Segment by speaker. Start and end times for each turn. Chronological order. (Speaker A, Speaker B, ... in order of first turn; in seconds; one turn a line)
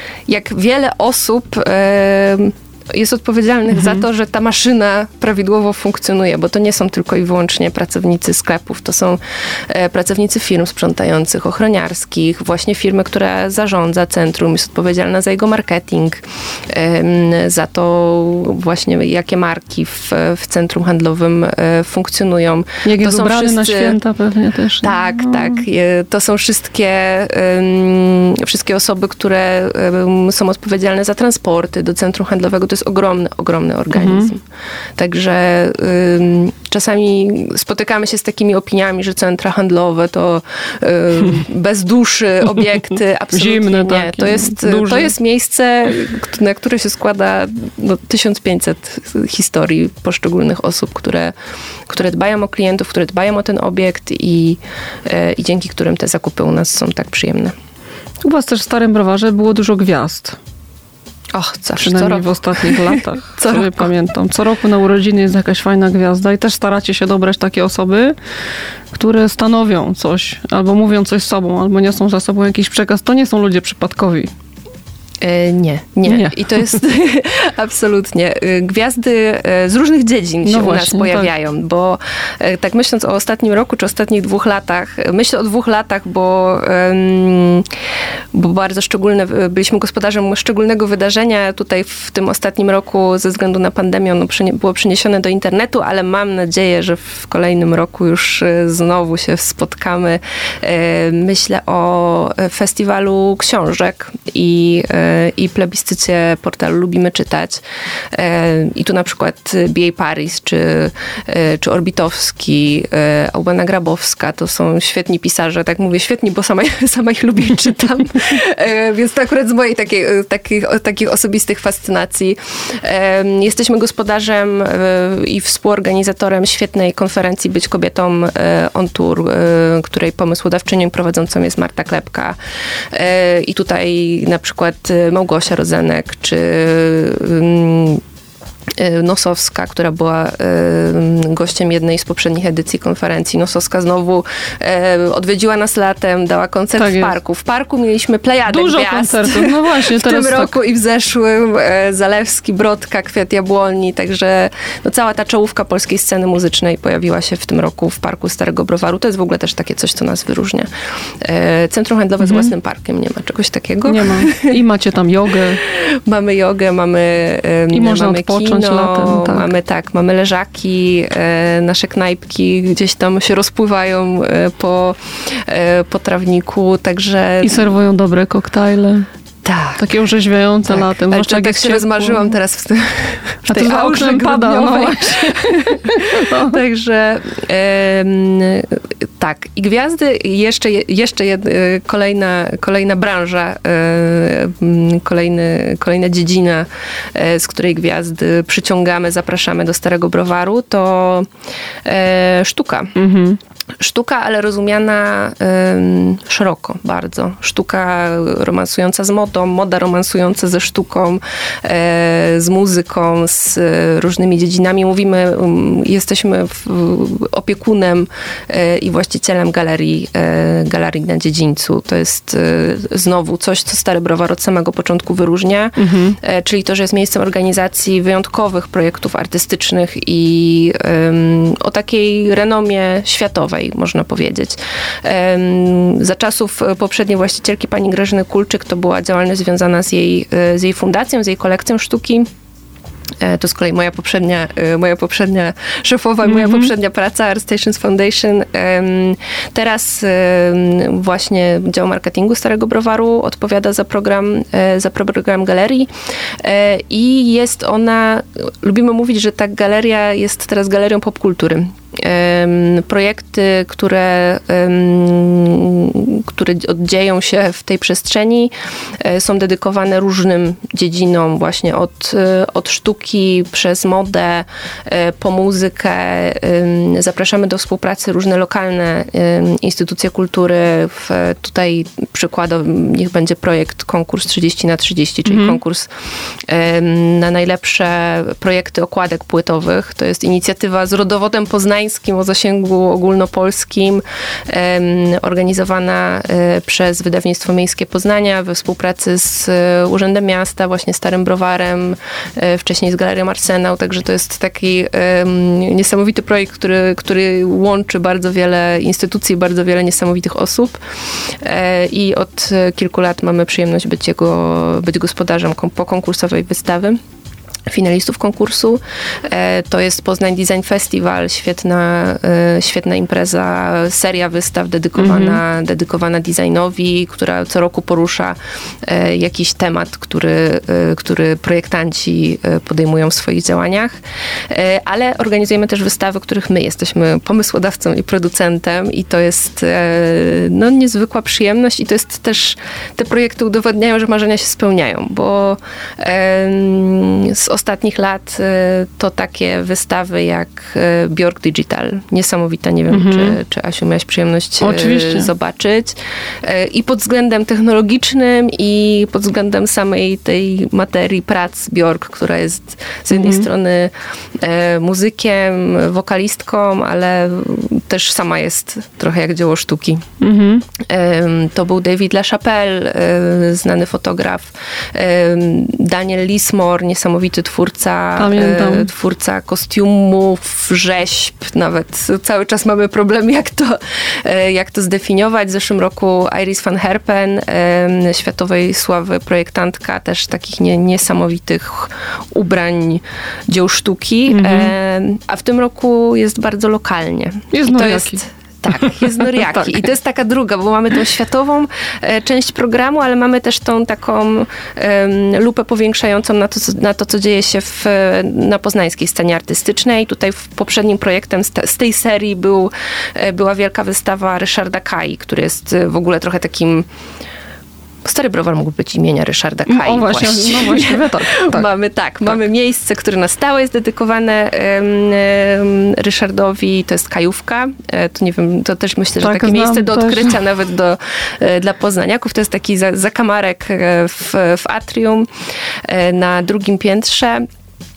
Speaker A: 0.3-24.0
Speaker B: 3.7-4.0
Speaker B: 22.8-25.6
Speaker A: 24.8-34.4
Speaker B: 33.9-34.3
Speaker A: 35.0-51.3
Speaker B: 43.3-45.1
Speaker A: 51.9-57.5
Speaker B: 58.2-60.4
Speaker A: 61.3-63.9
Speaker B: 61.8-68.2
Speaker B: 68.9-74.3
Speaker A: 75.2-87.7
Speaker B: 76.0-76.8
Speaker B: 80.4-81.3
Speaker A: 88.3-107.6
Speaker A: 108.1-132.4
Speaker A: 132.9-138.0
Speaker A: 138.8-160.7
Speaker B: 146.8-147.1
Speaker B: 148.5-150.6
Speaker A: 161.2-164.5
Speaker B: 162.2-162.5
Speaker B: 163.9-165.6
Speaker A: 165.6-177.7
Speaker B: 167.7-169.5
Speaker B: 177.4-179.1
Speaker A: 179.4-179.8
Speaker B: 179.8-182.3
Speaker A: 180.7-201.3
Speaker B: 183.5-186.6
Speaker A: 201.8-202.9
Speaker B: 203.0-203.4
Speaker A: 203.8-242.3
Speaker B: 225.8-226.2
Speaker A: 243.2-255.9
Speaker B: 246.2-246.7
Speaker A: 256.4-285.9
Speaker B: 285.3-285.6
Speaker A: 286.5-310.8
Speaker A: 311.4-317.0
Speaker A: 317.7-334.0
Speaker B: 325.0-325.4
Speaker A: 334.5-370.1
Speaker B: 352.9-353.4
Speaker B: 354.6-355.3
Speaker B: 363.1-363.5
Speaker B: 370.2-370.6
Speaker A: 370.8-416.9
Speaker B: 378.2-378.9
Speaker B: 394.3-394.7
Speaker B: 397.5-398.2
Speaker B: 398.8-399.9
Speaker A: 418.1-435.3
Speaker B: 419.7-421.7
Speaker B: 429.2-430.4
Speaker A: 435.9-437.4